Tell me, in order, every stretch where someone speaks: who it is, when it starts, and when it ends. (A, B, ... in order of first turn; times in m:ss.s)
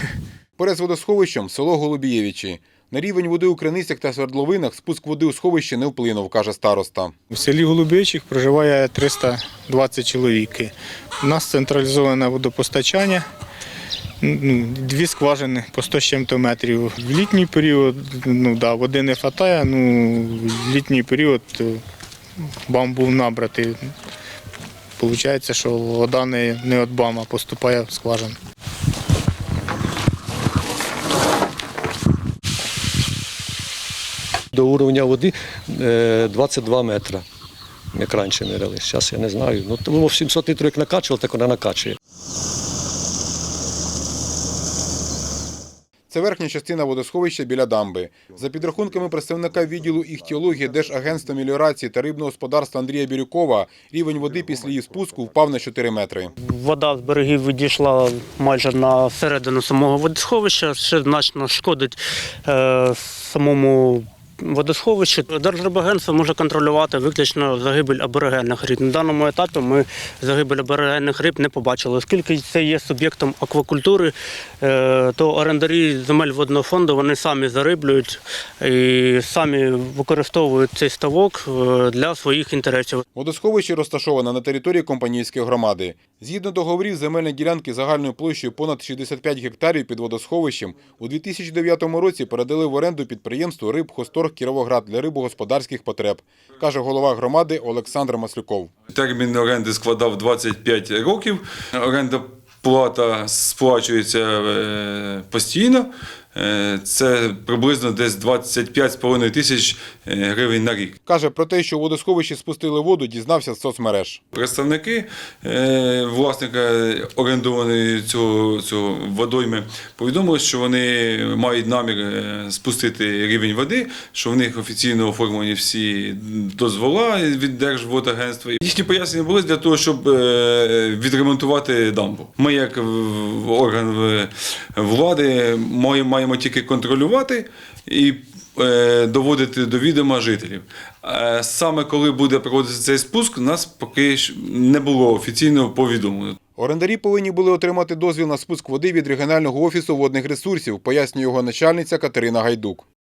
0:00.6-0:07.1 A
0:07.3-0:13.2 B
0:14.2-0:21.8 B
0:22.7-0:23.9 B
0:25.0-0:28.4 B
0:34.6-0:37.2 C
0:37.9-0:42.0 C
0:46.1-0:56.3 A
0:56.4-1:23.0 D
1:23.2-1:38.7 A
1:38.9-1:50.9 E
1:51.1-1:54.2 A
1:54.3-2:26.4 E
2:26.6-2:32.8 A